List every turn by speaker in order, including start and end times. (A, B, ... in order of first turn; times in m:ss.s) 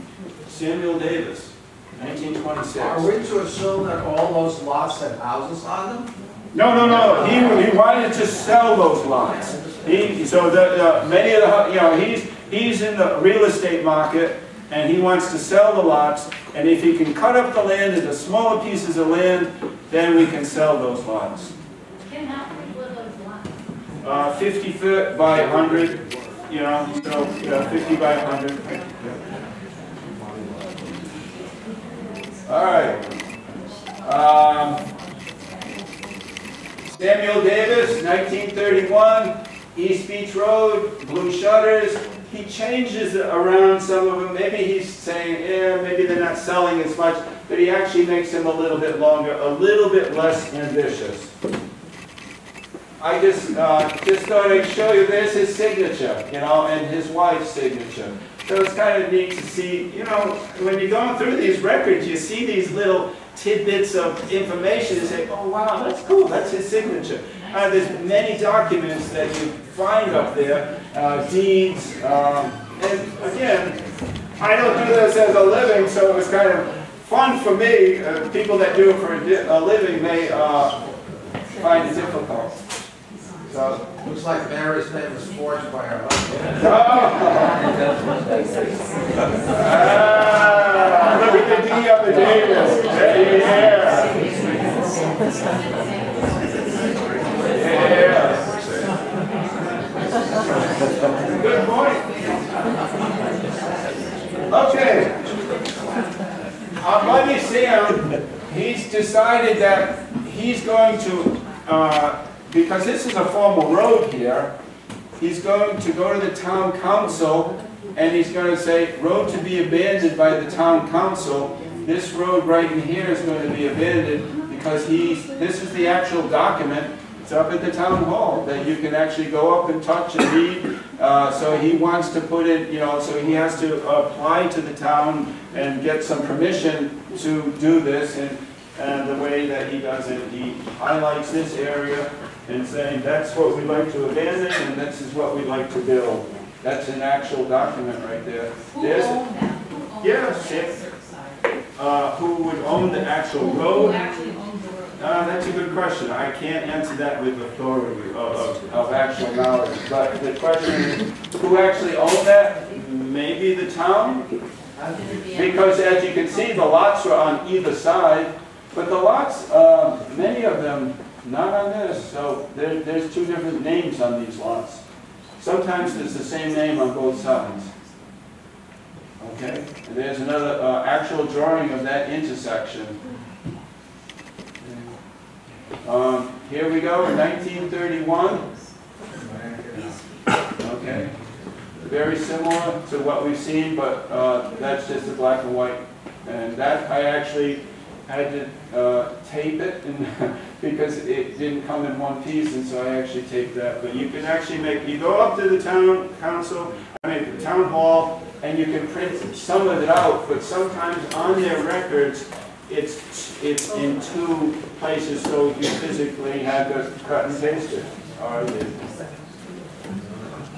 0:00.4-0:03.1 A
0:02.8-0:06.1 B
0:06.5-0:21.5 A
0:06.8-0:07.6 B
0:22.0-0:23.6 C
0:24.0-0:28.8 A
0:30.2-0:30.6 B
0:32.4-0:33.0 A
0:34.0-0:34.8 A
0:36.9-0:51.3 A
0:53.0-1:13.8 A
1:14.4-1:20.7 A
1:21.6-1:22.5 A
1:23.5-1:23.8 A
1:24.0-1:26.6 B
1:26.6-1:27.7 A
1:29.5-1:34.2 A
1:37.5-1:38.4 A
1:37.7-1:38.3 B
1:41.3-1:42.1 A
1:44.5-1:45.1 A
1:46.8-1:54.5 A
1:55.2-2:29.2 A
2:28.7-2:31.4 C
2:30.0-2:30.7 A
2:31.8-2:34.0 A
2:33.6-2:34.9 C
2:35.0-2:44.3 A
2:45.3-2:54.8 A
2:55.4-2:57.7 A
2:59.2-3:03.0 A
3:05.8-3:08.4 A
3:09.2-3:10.0 B
3:10.6-3:11.1 A
3:11.8-3:38.7 A